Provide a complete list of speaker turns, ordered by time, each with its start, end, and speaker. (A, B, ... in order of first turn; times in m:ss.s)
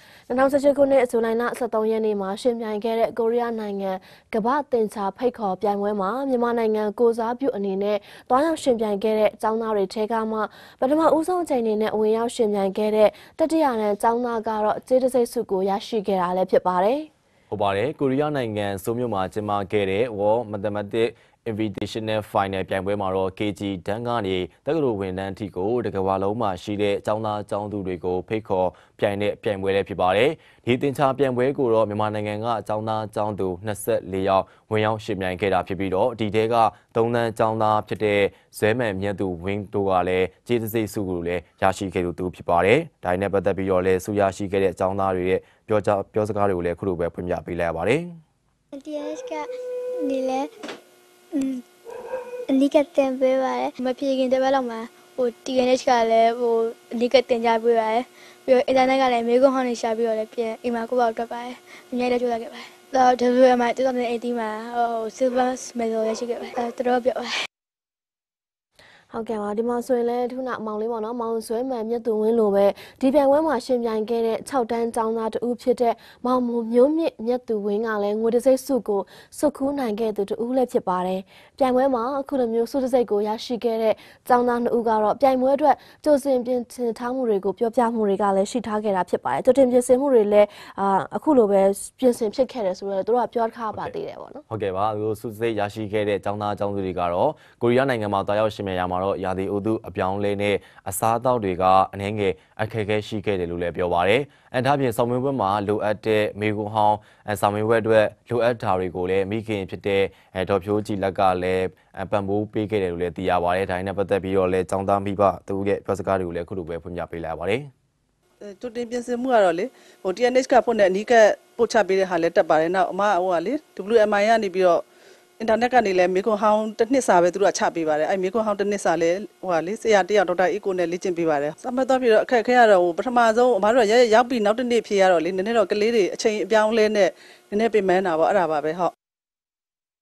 0:00.3-0:17.1 A
0:17.5-0:48.2 B
0:48.7-0:49.5 C
0:50.0-0:50.5 C
0:51.3-0:51.6 C
0:52.5-1:07.3 C
1:09.1-1:34.4 A
1:34.5-1:57.7 B
1:58.4-2:04.8 D
2:05.4-2:18.9 D